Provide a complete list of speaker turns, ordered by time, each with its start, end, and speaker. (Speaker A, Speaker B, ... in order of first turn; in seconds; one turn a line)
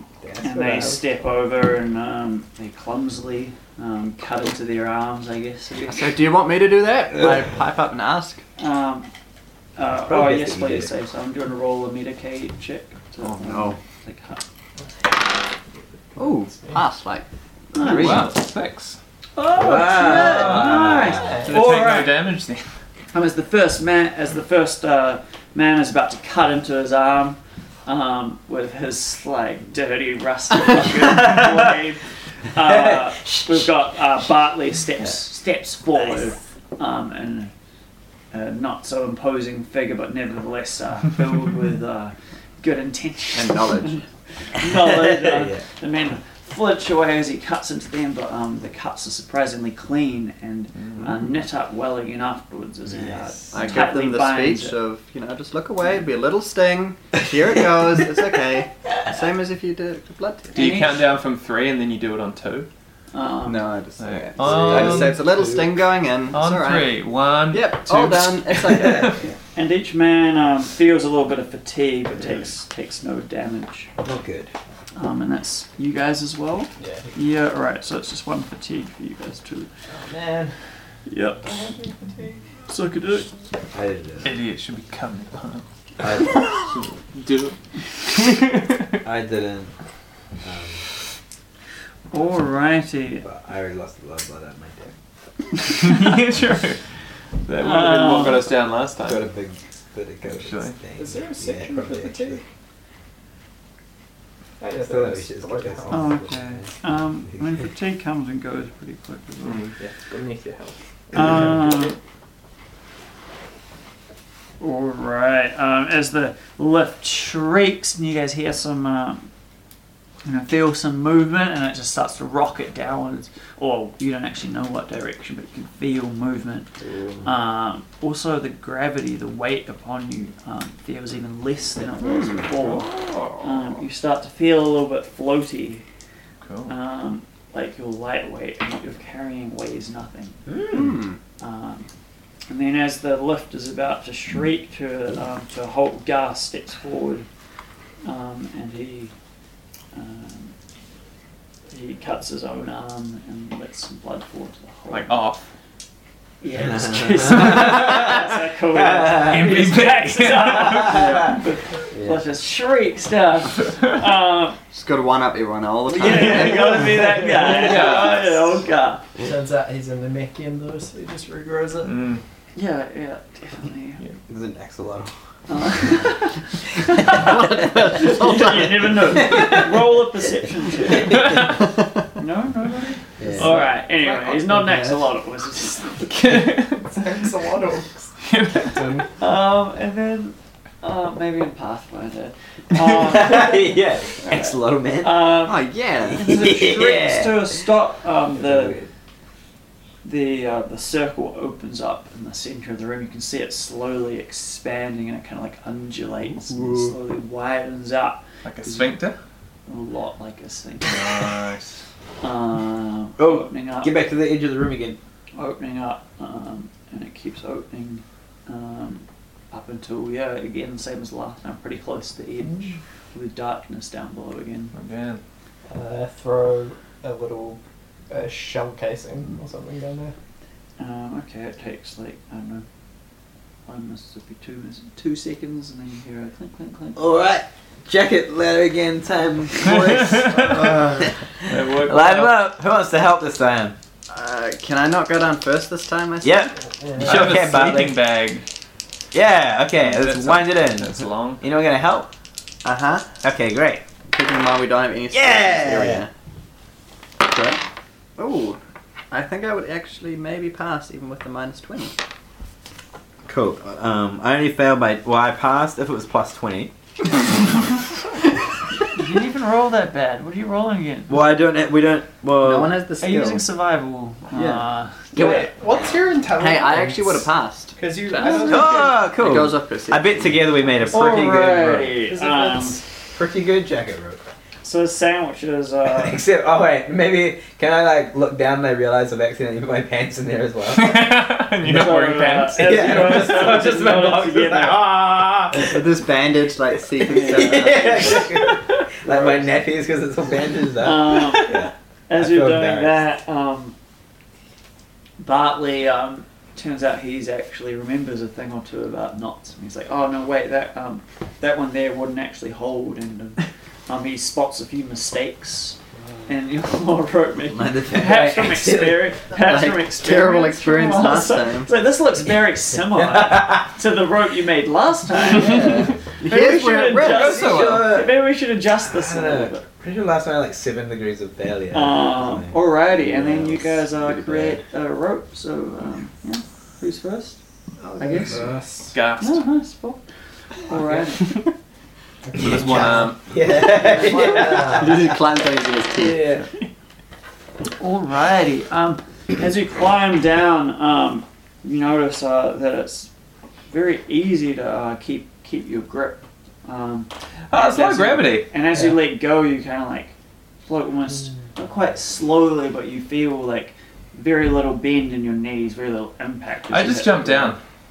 Speaker A: 0.2-1.0
Speaker B: 0.4-6.1
Speaker C: 5.8-8.4
Speaker B: 8.6-9.1
Speaker B: 9.8-14.4
Speaker A: 10.1-10.9
Speaker C: 13.2-13.8
Speaker C: 16.2-18.4
Speaker D: 16.2-16.8
Speaker B: 17.7-18.3
Speaker E: 17.8-19.0
Speaker B: 19.4-21.4
Speaker A: 19.5-22.1
Speaker C: 20.0-20.6
Speaker E: 20.3-20.7
Speaker D: 21.1-21.7
Speaker E: 21.4-22.7
Speaker B: 23.1-32.0
Speaker B: 32.5-37.5
Speaker A: 32.6-33.5
Speaker B: 38.3-54.8
Speaker C: 43.3-44.0
Speaker A: 44.6-45.6
Speaker E: 50.8-51.0
Speaker A: 52.9-53.6
Speaker C: 53.5-60.7
Speaker B: 60.5-61.0
Speaker E: 60.5-62.7
Speaker B: 63.1-63.7
Speaker C: 63.5-69.2
Speaker E: 64.0-65.2
Speaker A: 64.4-65.8
Speaker E: 66.3-69.2
Speaker A: 68.8-69.3
Speaker B: 69.5-73.9
Speaker A: 74.0-74.5
Speaker B: 75.0-79.7
Speaker D: 76.8-77.2
Speaker D: 79.9-80.6
Speaker B: 81.1-81.5
Speaker D: 81.4-82.5
Speaker B: 82.7-83.3
Speaker A: 83.7-84.3
Speaker E: 84.2-85.7
Speaker A: 86.0-86.5
Speaker E: 86.3-87.6
Speaker E: 88.1-88.9
Speaker A: 89.0-89.7
Speaker A: 90.4-90.8
Speaker B: 92.1-93.2
Speaker A: 93.2-94.9
Speaker B: 95.6-96.4
Speaker E: 95.7-96.8
Speaker E: 97.5-99.2
Speaker B: 97.6-98.5
Speaker A: 99.0-102.4
Speaker E: 100.3-100.8
Speaker D: 101.0-102.4
Speaker D: 104.6-106.2
Speaker A: 104.8-106.7
Speaker B: 105.9-109.7
Speaker E: 109.4-109.8
Speaker D: 109.8-111.9
Speaker B: 111.1-112.0
Speaker B: 114.6-119.3
Speaker B: 120.2-126.7
Speaker A: 126.8-127.3
Speaker B: 127.2-135.8
Speaker C: 132.0-132.5
Speaker E: 132.6-133.4
Speaker E: 136.4-136.7
Speaker B: 136.7-140.4
Speaker A: 140.5-140.9
Speaker C: 140.7-141.2
Speaker B: 141.4-141.9
Speaker B: 142.5-147.3
Speaker B: 148.0-149.1
Speaker B: 149.9-150.5
Speaker B: 151.7-155.3
Speaker E: 154.9-155.5
Speaker B: 156.4-164.6
Speaker A: 156.6-158.2
Speaker A: 158.7-159.4
Speaker E: 159.2-161.4
Speaker A: 161.9-162.2
Speaker C: 164.7-167.3
Speaker B: 165.9-169.1
Speaker D: 167.3-168.0
Speaker E: 167.3-168.4
Speaker D: 169.2-171.9
Speaker E: 171.8-172.2
Speaker B: 172.6-174.0
Speaker A: 174.3-175.1
Speaker B: 175.5-181.5
Speaker C: 177.0-179.3
Speaker E: 181.1-181.5
Speaker B: 182.2-186.2
Speaker A: 183.2-183.7
Speaker D: 183.3-185.1
Speaker E: 186.1-187.2
Speaker D: 186.9-189.1
Speaker E: 188.2-189.0
Speaker B: 189.2-198.8
Speaker A: 192.7-195.3
Speaker C: 195.4-196.6
Speaker A: 196.1-197.5
Speaker A: 198.4-198.9
Speaker B: 200.0-209.0
Speaker C: 206.5-206.9
Speaker E: 208.4-209.2
Speaker B: 209.7-211.3
Speaker E: 210.8-211.8
Speaker B: 212.2-214.0
Speaker A: 213.2-215.0
Speaker B: 215.3-224.7
Speaker E: 224.7-225.2
Speaker D: 225.7-227.6
Speaker D: 228.1-230.1
Speaker B: 230.8-232.7
Speaker B: 233.7-237.1
Speaker A: 237.0-243.8
Speaker E: 239.9-240.5
Speaker E: 241.4-242.4
Speaker C: 244.1-246.5
Speaker A: 246.2-248.0
Speaker D: 246.7-247.3
Speaker E: 247.0-248.5
Speaker A: 249.1-252.1
Speaker E: 249.8-251.4
Speaker C: 252.6-253.1
Speaker A: 253.2-253.8
Speaker C: 254.1-256.1
Speaker A: 255.1-256.1
Speaker C: 257.2-257.6
Speaker C: 258.2-258.6
Speaker C: 259.1-262.0
Speaker A: 263.3-266.7
Speaker B: 268.9-271.2
Speaker A: 271.1-272.8
Speaker C: 272.4-273.4
Speaker B: 273.0-275.3
Speaker C: 274.4-274.6
Speaker C: 275.1-275.5
Speaker D: 275.2-279.1
Speaker C: 276.4-280.6
Speaker B: 278.1-278.5
Speaker A: 278.3-282.0
Speaker B: 280.8-282.8
Speaker D: 282.1-282.8
Speaker A: 283.1-284.2
Speaker B: 284.6-286.2
Speaker A: 285.9-291.1
Speaker E: 290.7-293.4
Speaker B: 291.6-295.0
Speaker A: 292.6-295.8
Speaker C: 295.6-298.3
Speaker A: 297.0-303.0
Speaker B: 297.1-298.9
Speaker B: 300.8-303.8
Speaker B: 305.2-329.6
Speaker A: 317.5-319.2
Speaker C: 319.3-321.7
Speaker A: 322.9-323.7
Speaker C: 326.2-327.4
Speaker E: 327.0-327.9
Speaker A: 327.0-328.2
Speaker A: 328.8-333.6
Speaker B: 331.7-337.4
Speaker C: 333.3-334.6
Speaker B: 338.0-338.4
Speaker D: 338.0-339.0
Speaker A: 338.1-338.5
Speaker E: 338.9-339.4
Speaker B: 339.2-340.0
Speaker B: 340.7-341.4
Speaker D: 342.3-343.1
Speaker E: 342.4-343.2
Speaker A: 342.4-345.1
Speaker B: 343.8-344.8
Speaker D: 344.3-344.9
Speaker C: 344.3-346.4
Speaker B: 346.0-346.4
Speaker B: 347.8-353.1
Speaker B: 353.7-360.1
Speaker E: 357.5-358.5
Speaker D: 358.7-359.0
Speaker B: 360.7-367.6
Speaker E: 366.7-367.6